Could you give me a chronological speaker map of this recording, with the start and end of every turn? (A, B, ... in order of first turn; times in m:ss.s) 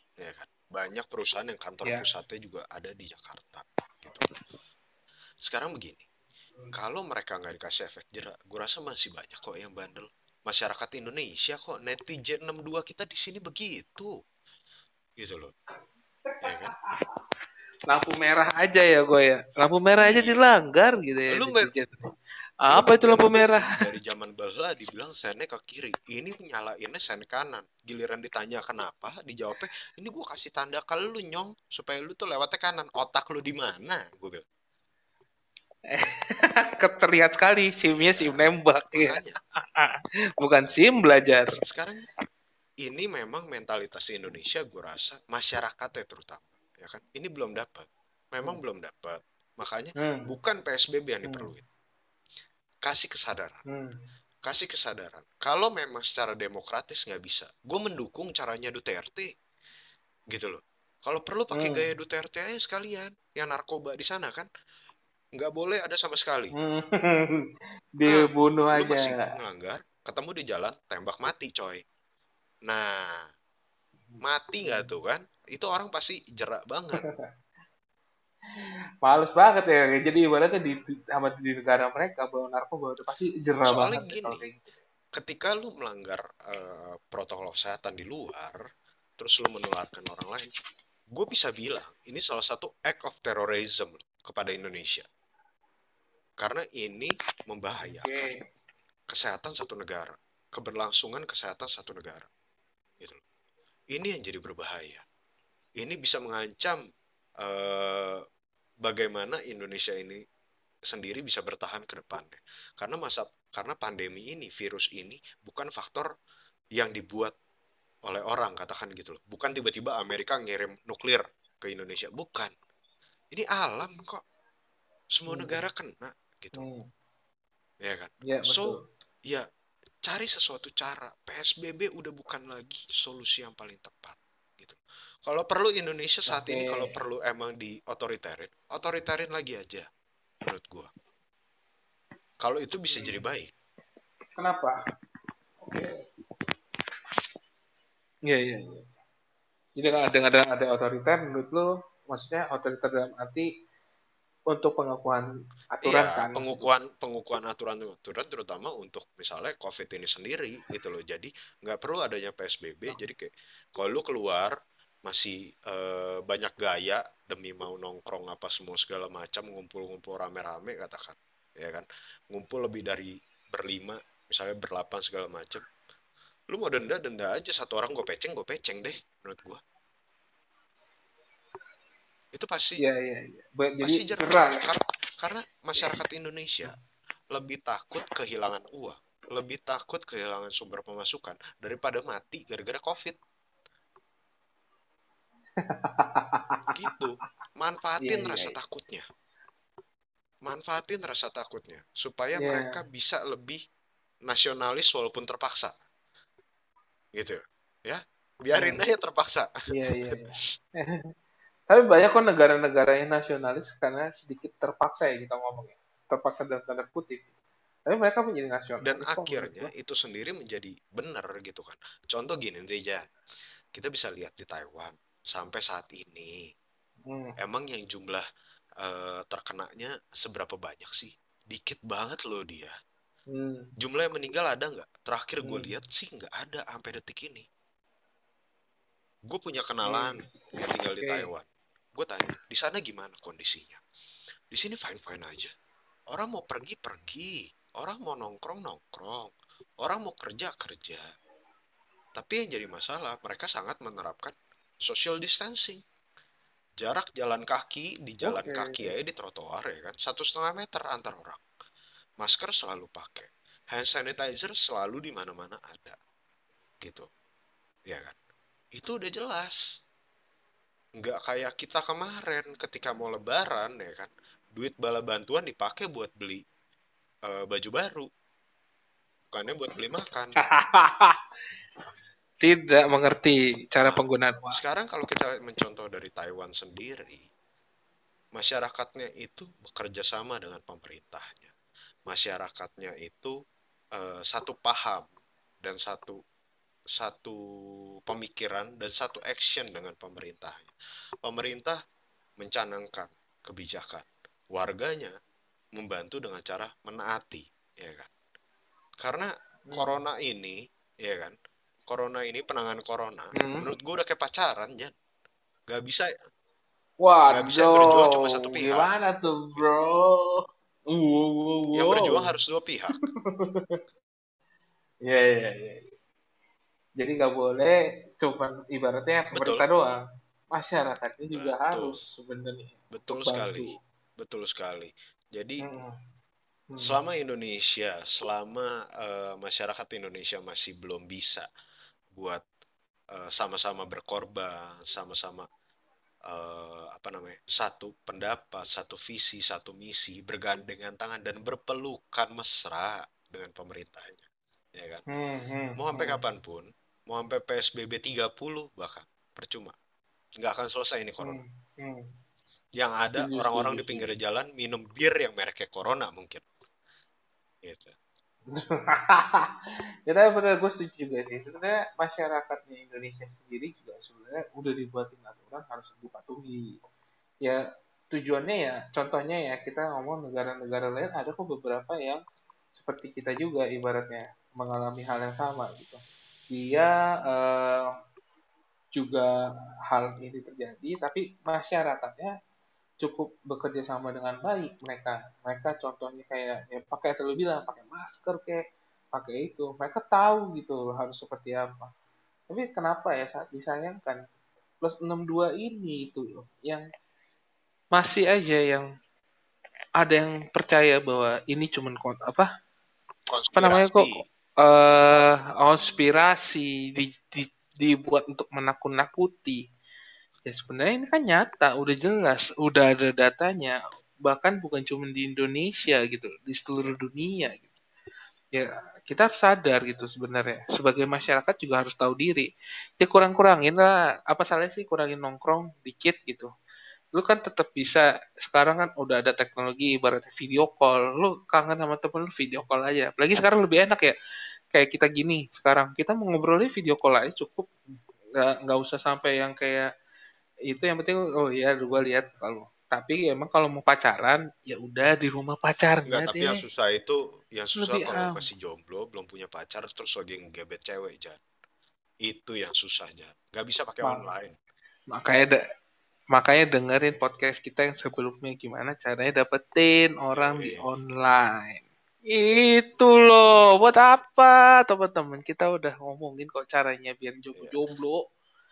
0:00.2-0:04.3 A
0:05.4-0:06.0 A
0:06.7-0:14.1 A
0:15.2-0:15.5 A
0:16.4-0:16.7 A
0:16.5-0:17.1 B
0:17.9-0:22.1 B
0:20.0-0:20.4 A
0:21.3-0:21.7 A
0:22.7-0:23.6 B
0:22.7-0:34.4 A
0:35.9-0:41.6 B
0:38.0-0:38.4 A
0:38.9-0:39.4 A
0:41.5-0:42.0 A
0:42.8-0:51.6 A
0:50.0-0:50.3 B
0:51.2-0:51.5 B
0:52.8-0:53.6 A
0:53.7-0:54.0 B
0:54.4-0:59.3 A
1:00.3-1:04.5 A
1:01.5-1:01.8 B
1:05.4-1:06.5 A
1:06.6-1:07.4 B
1:08.0-1:09.3 B
1:08.0-1:11.8 A
1:12.7-1:13.3 A
1:14.1-1:14.9 B
1:14.2-1:17.1 A
1:19.0-1:24.6 B
1:23.6-1:24.4 A
1:25.1-1:28.6 A
1:29.2-1:30.5 A
1:31.1-1:35.0 A
1:36.4-1:38.3 A
1:37.8-1:38.4 B
1:39.1-1:42.3 A
1:43.9-1:45.0 A
1:45.8-1:46.8 A
1:47.4-1:48.2 A
1:48.8-1:50.2 A
1:50.9-1:56.1 A
1:56.8-1:57.3 A
1:58.0-2:02.5 A
2:03.3-2:04.2 A
2:05.2-2:06.6 A
2:05.3-2:05.6 B
2:06.5-2:06.9 B
2:07.8-2:08.8 A
2:08.2-2:08.8 B
2:10.0-2:19.9 A
2:16.3-2:16.9 B
2:20.4-2:20.9 A
2:22.4-2:23.5 A
2:22.9-2:23.2 B
2:24.4-2:24.7 B
2:25.6-2:26.0 B
2:28.2-2:28.9 B
2:29.8-2:33.5 B
2:34.5-2:36.7 B
2:35.8-2:44.5 A
2:45.1-2:55.6 A
2:56.5-2:59.6 A
3:02.3-3:02.8 A
3:02.8-3:04.6 B
3:03.8-3:06.7 A
3:07.3-3:13.2 A
3:15.6-3:16.8 B
3:16.7-3:19.0 A
3:18.0-3:18.6 B
3:20.4-3:23.6 A
3:22.4-3:22.8 B
3:24.2-3:25.7 A
3:27.1-3:29.5 A
3:28.5-3:28.8 B
3:29.7-3:30.9 B
3:31.7-3:37.2 B
3:37.9-3:39.7 B
3:38.8-3:43.0 A
3:43.7-3:46.5 A
3:47.1-3:47.4 B
3:47.4-3:48.2 A
3:48.8-3:52.7 A
3:53.3-3:53.7 B
3:53.8-3:57.4 A
3:55.4-3:55.7 B
3:59.3-4:03.8 A
3:59.8-4:00.1 B
4:01.0-4:01.3 B
4:04.5-4:05.5 A
4:06.1-4:09.3 A
4:09.8-4:11.0 A
4:12.1-4:15.8 A
4:16.8-4:21.4 A
4:18.2-4:18.9 B
4:22.2-4:26.0 A
4:26.8-4:27.1 A
4:27.9-4:28.2 A
4:28.8-4:29.6 A
4:31.0-4:36.4 A
4:37.3-4:38.1 A
4:39.3-4:40.4 A
4:40.4-4:41.2 B
4:42.4-4:44.6 B
4:43.8-4:47.2 A
4:48.3-4:51.5 A
4:52.1-4:53.3 A
4:53.9-4:55.1 A
4:55.6-4:56.2 A
4:57.0-4:57.4 A
4:58.1-5:00.7 A
5:01.2-5:01.8 A
5:02.4-5:05.1 A
5:05.8-5:08.1 A
5:09.0-5:11.3 A
5:09.7-5:10.0 B
5:11.9-5:14.9 A
5:13.3-5:13.6 B
5:15.7-5:16.1 A
5:17.0-5:22.3 B
5:17.3-5:18.9 A
5:21.7-5:22.9 A
5:23.2-5:23.8 B
5:25.0-5:25.8 B
5:27.0-5:30.0 B
5:29.3-5:29.6 A
5:30.5-5:33.8 B
5:31.3-5:32.0 A
5:32.9-5:35.6 A
5:35.6-5:35.9 B
5:36.7-5:37.0 B
5:36.8-5:41.4 A
5:42.1-5:42.4 A
5:43.1-5:45.5 A
5:46.3-5:55.0 A
5:55.1-5:56.2 B
5:55.8-5:59.7 A
6:00.4-6:01.4 A
6:01.2-6:02.1 B
6:02.8-6:06.4 A
6:03.1-6:04.1 B
6:07.6-6:07.9 A
6:08.5-6:09.5 B
6:10.1-6:16.7 B
6:18.1-6:22.2 B
6:22.7-6:27.9 B
6:28.9-6:29.3 B
6:29.9-6:32.3 B
6:33.0-6:41.9 B
6:42.5-6:44.2 B
6:44.8-6:46.8 B
6:47.9-6:48.9 B
6:50.0-6:52.5 B
6:53.3-6:54.2 A
6:53.5-6:59.6 B
7:00.4-7:07.7 B
7:08.5-7:16.5 B
7:17.2-7:24.2 B
7:24.7-7:27.7 B
7:28.4-7:29.9 B
7:30.7-7:36.6 B
7:36.1-7:41.4 A
7:37.8-7:38.4 B
7:42.2-7:44.6 A
7:45.1-7:45.6 B
7:46.3-7:58.2 B
7:50.3-7:50.8 A